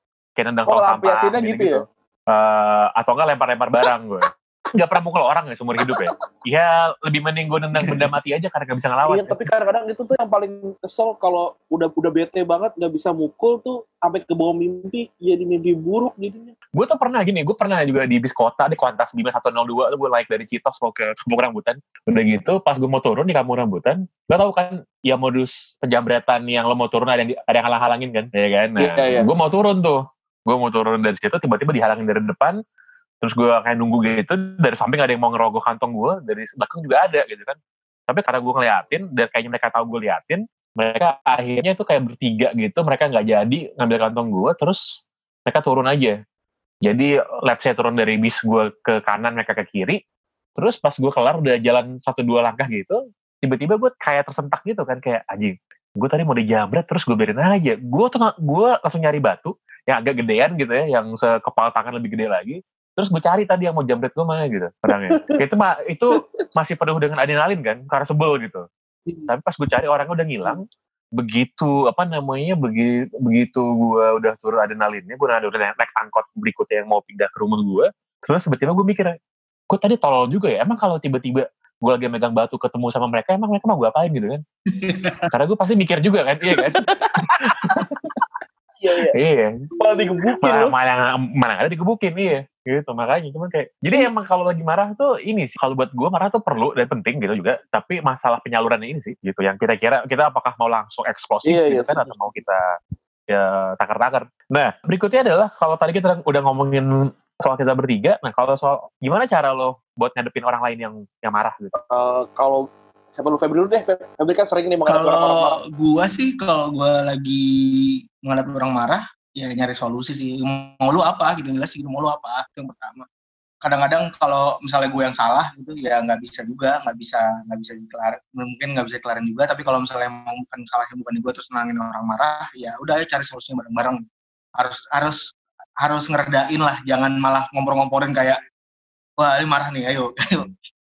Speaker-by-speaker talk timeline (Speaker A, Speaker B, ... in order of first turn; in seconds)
Speaker A: 0.4-9.4, 16.8-32.6, 33.2-37.6, 38.1-44.8, 45.5-46.2, 46.9-50.0, 50.6-68.6, 69.3-70.6, 71.2-79.1, 79.7-84.4, 85.3-86.8, 87.4-88.2, 89.2-89.5, 90.4-102.6, 103.3-106.9, 107.4-111.7
Speaker B: 0.7-1.8, 9.1-16.5, 28.8-29.3, 65.1-65.4, 86.5-87.4, 88.8-89.2, 89.8-90.7, 101.5-102.4, 111.8-115.6
Speaker C: 84.7-85.3, 114.9-123.0, 123.6-134.0, 134.6-135.2, 135.8-138.4, 139.2-140.4